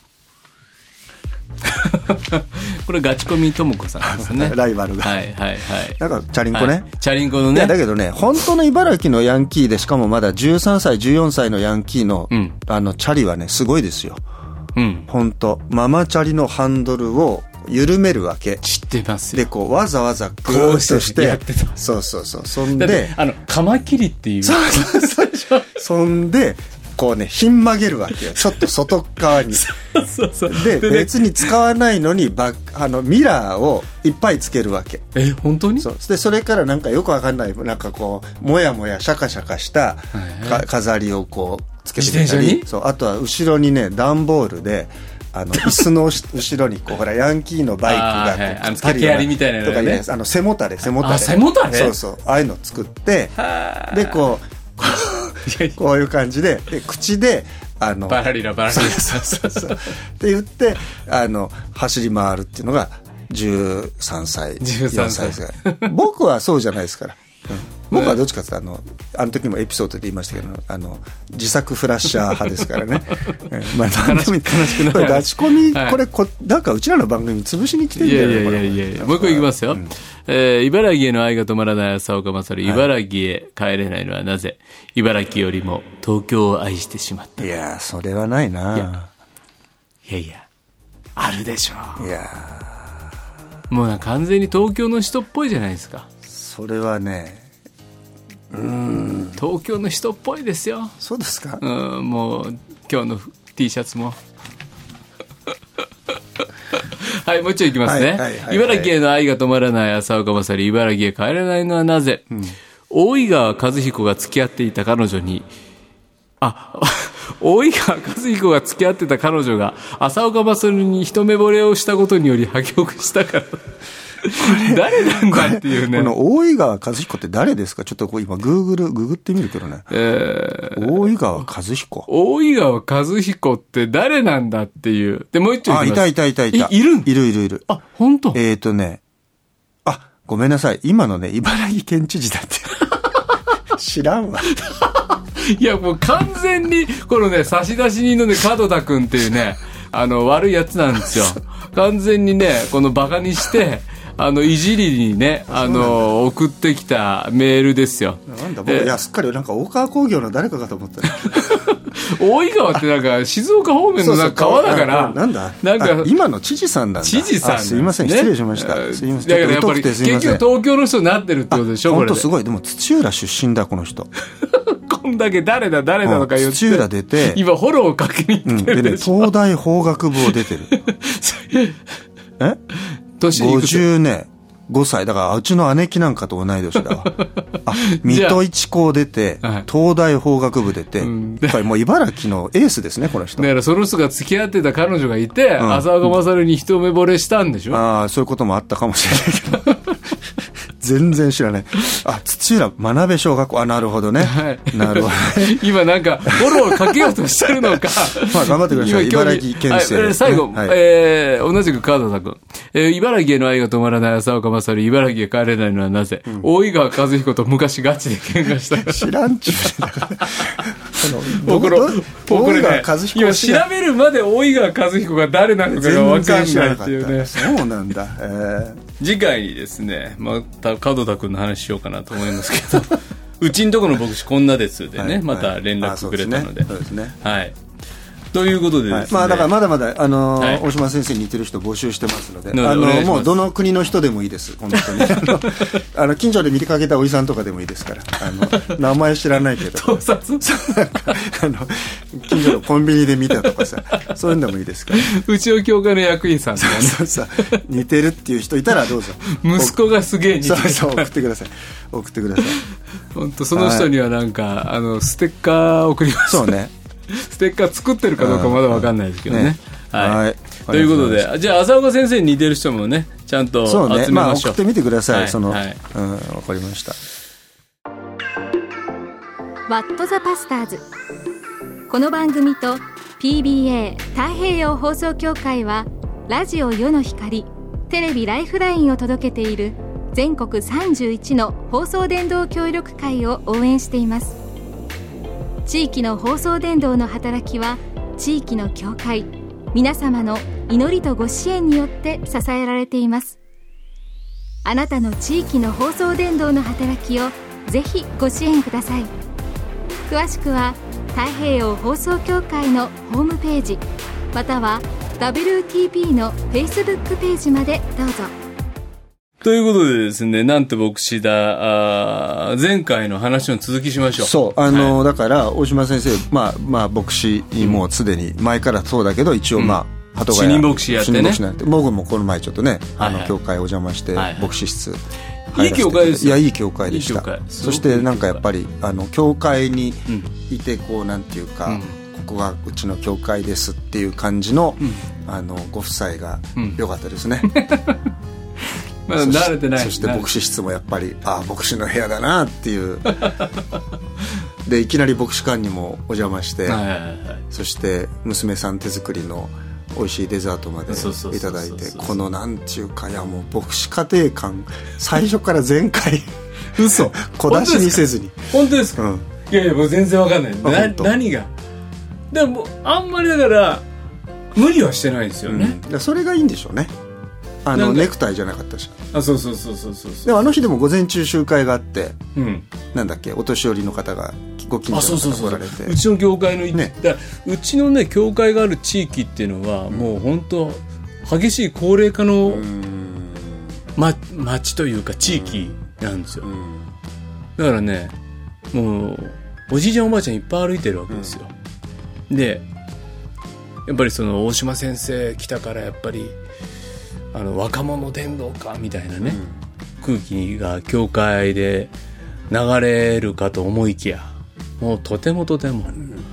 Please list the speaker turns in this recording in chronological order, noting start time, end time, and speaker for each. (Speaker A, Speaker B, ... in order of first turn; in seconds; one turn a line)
Speaker A: 1.7-6.0
Speaker B: 4.0-5.2
Speaker B: 6.0-6.9
Speaker A: 6.5-7.8
Speaker B: 7.5-14.2
Speaker A: 12.3-12.6
Speaker A: 14.8-15.1
Speaker B: 15.1-18.6
Speaker A: 18.6-19.5
Speaker B: 19.3-23.1
Speaker A: 20.5-21.8
Speaker A: 22.7-25.7
Speaker B: 24.4-29.7
Speaker A: 29.5-31.5
Speaker B: 30.5-35.0
Speaker A: 35.1-35.9
Speaker B: 35.8-53.4
Speaker A: 40.1-40.6
Speaker A: 42.0-42.7
Speaker A: 47.9-50.0
Speaker A: 51.0-52.0
Speaker A: 53.4-54.2
Speaker B: 53.9-79.9
Speaker A: 55.5-55.8
Speaker A: 58.1-59.9
Speaker A: 64.6-65.9
Speaker A: 67.9-68.2
Speaker A: 73.9-76.0
Speaker A: 78.0-87.5
Speaker B: 87.4-89.1
Speaker A: 90.0-90.5
Speaker A: 91.2-92.1
Speaker B: 92.0-93.0
Speaker A: 93.7-96.1
Speaker B: 96.3-97.5
Speaker B: 98.5-99.4
Speaker A: 99.4-100.9
Speaker B: 101.0-101.6
Speaker A: 101.6-104.2
Speaker A: 107.0-112.3
Speaker B: 107.8-108.9
Speaker A: 112.9-115.5
Speaker A: 116.4-126.1
Speaker B: 124.4-129.9
Speaker A: 129.9-131.0
Speaker B: 130.8-132.1
Speaker A: 132.1-137.1
Speaker B: 135.7-137.7
Speaker A: 137.7-138.4
Speaker B: 138.3-139.0
Speaker B: 139.8-142.9
Speaker B: 143.7-144.5
Speaker A: 144.6-158.9
Speaker B: 155.5-156.1
Speaker B: 158.3-161.6
Speaker A: 161.2-166.1
Speaker B: 164.0-170.4
Speaker A: 167.0-172.3
Speaker B: 171.5-174.1
Speaker A: 174.4-179.3
Speaker B: 176.0-177.4
Speaker B: 178.4-180.7
Speaker A: 180.7-181.8
Speaker A: 182.8-183.9
Speaker B: 183.3-193.5
Speaker A: 187.1-188.4
Speaker A: 191.0-191.6
Speaker A: 193.4-197.8
Speaker B: 195.6-195.9
Speaker B: 197.7-199.8
Speaker B: 200.8-205.6
Speaker A: 204.2-219.1
Speaker B: 206.3-210.8
Speaker B: 218.7-223.7
Speaker A: 220.2-220.6
Speaker A: 221.3-227.6
Speaker B: 225.7-228.8
Speaker A: 229.0-237.6
Speaker B: 235.0-237.2
Speaker A: 238.3-239.5
Speaker B: 238.9-255.1
Speaker A: 240.4-240.7
Speaker A: 242.5-243.4
Speaker A: 244.7-245.8
Speaker A: 248.4-248.8
Speaker A: 249.7-250.8
Speaker A: 254.9-257.6
Speaker B: 256.6-259.8
Speaker A: 259.2-261.1
Speaker B: 260.4-262.6
Speaker A: 263.1-266.6
Speaker B: 263.5-263.9
Speaker B: 266.3-266.7
Speaker A: 267.1-275.8
Speaker B: 268.2-271.3
Speaker B: 273.6-277.0
Speaker C: 279.7-280.9
Speaker C: 281.9-294.4
Speaker C: 295.7-303.4
Speaker C: 304.6-309.1
Speaker C: 310.1-318.3
Speaker A: 319.4-325.0
Speaker B: 324.2-335.0
Speaker A: 329.6-331.4
Speaker A: 333.0-333.4
Speaker A: 334.1-334.5
Speaker B: 335.5-347.5
Speaker A: 335.5-338.4
Speaker A: 341.7-342.0
Speaker A: 346.6-346.8
Speaker A: 347.4-348.1
Speaker A: 349.1-350.3
Speaker B: 349.2-353.3
Speaker A: 353.1-353.6
Speaker B: 354.6-356.8
Speaker A: 356.7-357.4
Speaker B: 357.5-366.3
Speaker A: 360.9-362.2
Speaker A: 366.8-371.5
Speaker B: 366.9-369.3
Speaker B: 370.6-371.1
Speaker A: 372.3-373.9
Speaker A: 374.6-375.8
Speaker B: 375.5-376.9
Speaker B: 377.6-379.0
Speaker A: 377.7-378.1
Speaker A: 379.1-380.4
Speaker B: 380.2-382.2
Speaker A: 382.4-382.7
Speaker B: 382.9-386.0
Speaker A: 384.9-392.7
Speaker B: 392.5-393.7
Speaker A: 394.0-396.5
Speaker B: 395.3-395.6
Speaker B: 396.4-396.9
Speaker A: 397.6-398.1
Speaker A: 398.7-401.5
Speaker A: 402.3-402.6
Speaker A: 403.9-406.4
Speaker A: 407.3-409.4
Speaker B: 409.2-409.6
Speaker A: 410.0-411.9
Speaker A: 412.5-416.2